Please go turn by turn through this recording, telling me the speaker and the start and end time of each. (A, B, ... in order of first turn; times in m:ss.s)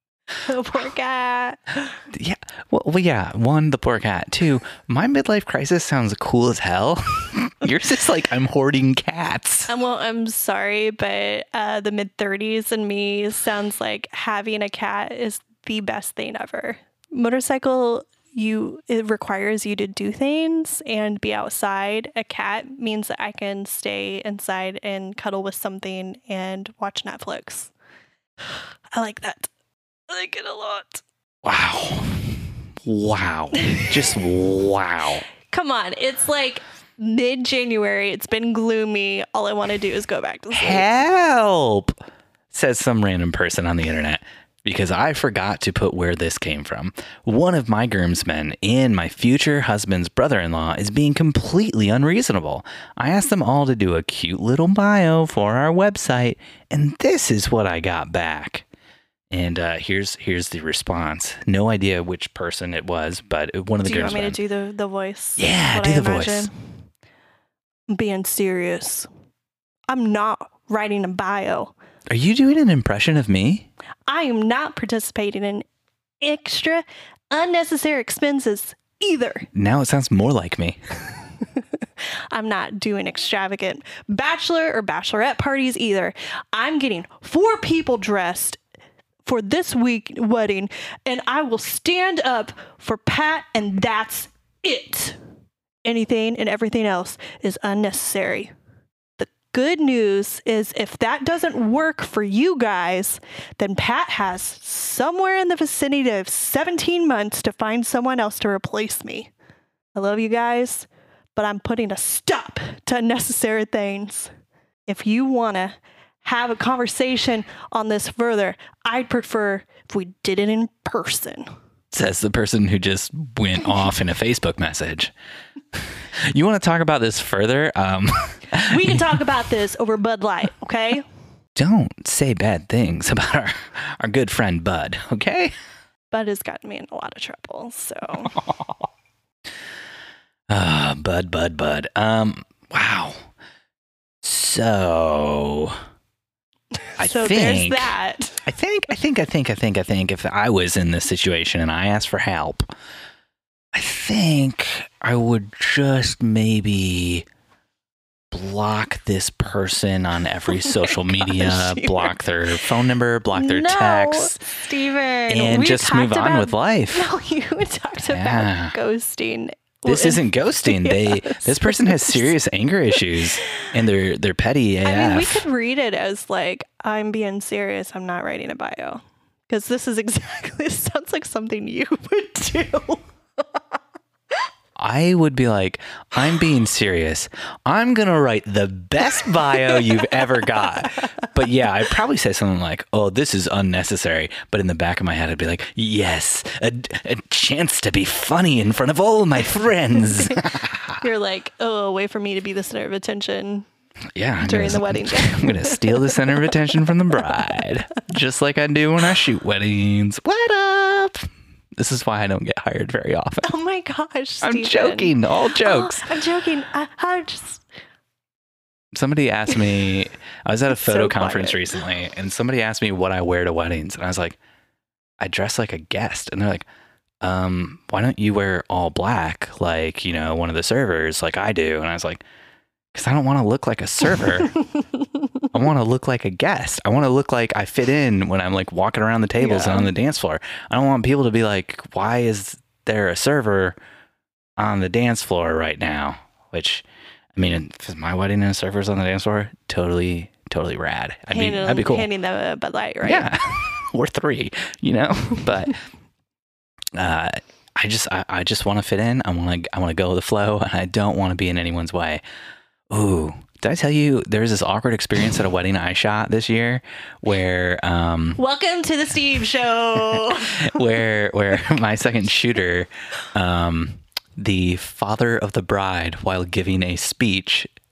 0:00.4-0:02.0 A
0:02.1-0:09.7 B
0:09.7-0:27.7 A
0:28.9-0:29.5 A
0:30.1-0:31.0 A
0:31.4-0:35.2 B
0:35.5-0:40.9 A
0:40.5-0:42.0 B
0:42.5-0:58.7 B
0:59.3-1:04.4 B
1:03.8-1:06.5 A
1:05.4-1:06.5 B
1:07.9-1:09.1 A
1:09.9-1:11.7 A
1:12.1-1:13.7 B
1:14.1-1:15.6 A
1:16.2-1:19.5 A
1:19.5-1:20.8 B
1:22.3-1:28.6 A
1:29.2-1:35.2 A
1:35.8-1:38.5 A
1:39.2-1:49.3 A
1:50.0-1:54.3 A
1:54.9-2:01.5 A
2:01.9-2:05.1 B
2:05.7-2:09.1 B
2:08.6-2:11.0 A
2:11.6-2:15.5 B
2:16.1-2:18.4 A
2:18.3-2:18.9 B
2:20.5-2:23.3 B
2:24.2-2:25.8 B
2:27.0-2:28.5 A
2:27.0-2:27.9 B
2:28.4-2:32.7 B
2:33.7-2:37.3 B
2:38.3-2:44.4 B
2:40.5-2:42.2 A
2:43.3-2:52.3 A
2:45.3-2:47.1 B
2:48.1-2:48.7 B
2:49.9-2:55.4 B
2:53.2-2:53.7 A
2:54.8-3:03.1 A
3:04.8-3:21.0 B
3:09.2-3:11.3 A
3:20.0-3:20.4 A
3:21.0-3:23.7 A
3:24.2-3:31.3 B
3:24.4-3:26.6 A
3:31.8-3:33.5 B
3:33.4-3:37.7 A
3:34.4-3:36.1 B
3:38.9-3:44.4 B
3:40.7-3:41.7 A
3:45.2-3:46.7 B
3:47.2-3:52.2 B
3:52.9-3:54.6 B
3:54.6-3:55.5 A
3:55.5-4:03.8 B
3:59.4-3:59.9 A
4:04.6-4:12.1 B
4:11.3-4:13.3 A
4:13.0-4:15.8 B
4:17.0-4:22.2 B
4:22.9-4:28.4 B
4:28.4-4:30.8 A
4:30.1-4:37.7 B